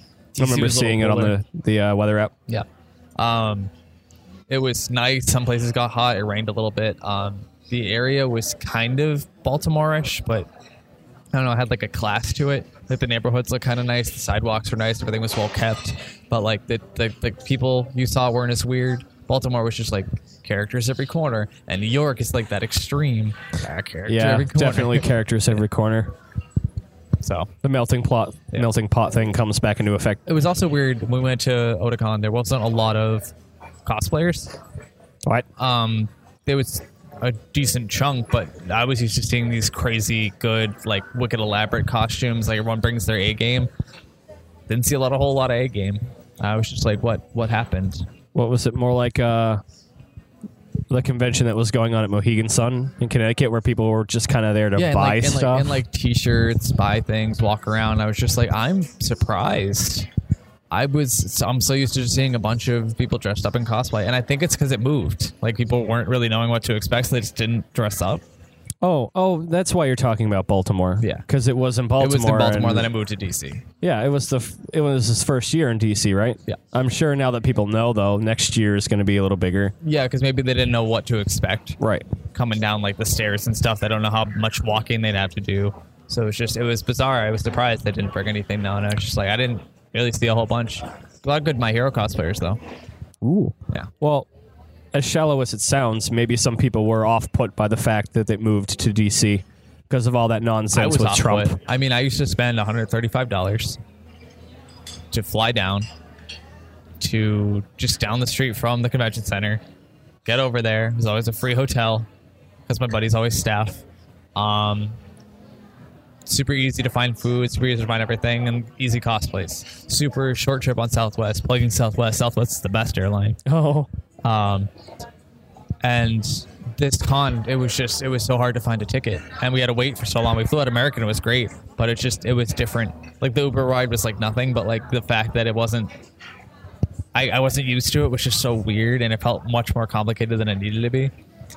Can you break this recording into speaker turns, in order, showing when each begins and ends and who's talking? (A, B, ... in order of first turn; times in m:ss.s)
0:00.3-0:01.4 A
0:00.4-0:02.3 B
0:03.2-0:03.7 A
0:04.5-0:10.5 A
0:11.3-0:25.6 A
0:24.0-0:26.1 B
0:27.2-0:27.5 A
0:27.6-0:30.2 B
0:30.2-0:33.3 A
0:33.8-0:34.6 A
0:35.6-0:43.7 A
0:44.7-0:48.0 A
0:48.3-0:49.6 B
0:50.9-0:55.8 B
0:54.7-1:00.1 A
1:00.7-1:08.2 A
1:08.8-1:12.9 B
1:12.0-1:13.6 A
1:13.8-1:19.7 B
1:19.8-1:21.8 A
1:21.8-1:22.0 B
1:22.3-1:32.6 A
1:33.2-1:34.3 B
1:34.9-1:41.6 B
1:40.7-1:43.8 A
1:45.1-1:45.9 A
1:47.0-1:49.6 A
1:50.2-1:52.1 A
1:52.7-1:53.8 A
1:54.3-1:55.0 A
1:56.2-2:03.4 A
2:03.4-2:03.9 B
2:04.2-2:04.7 A
2:05.8-2:15.9 A
2:17.1-2:21.1 A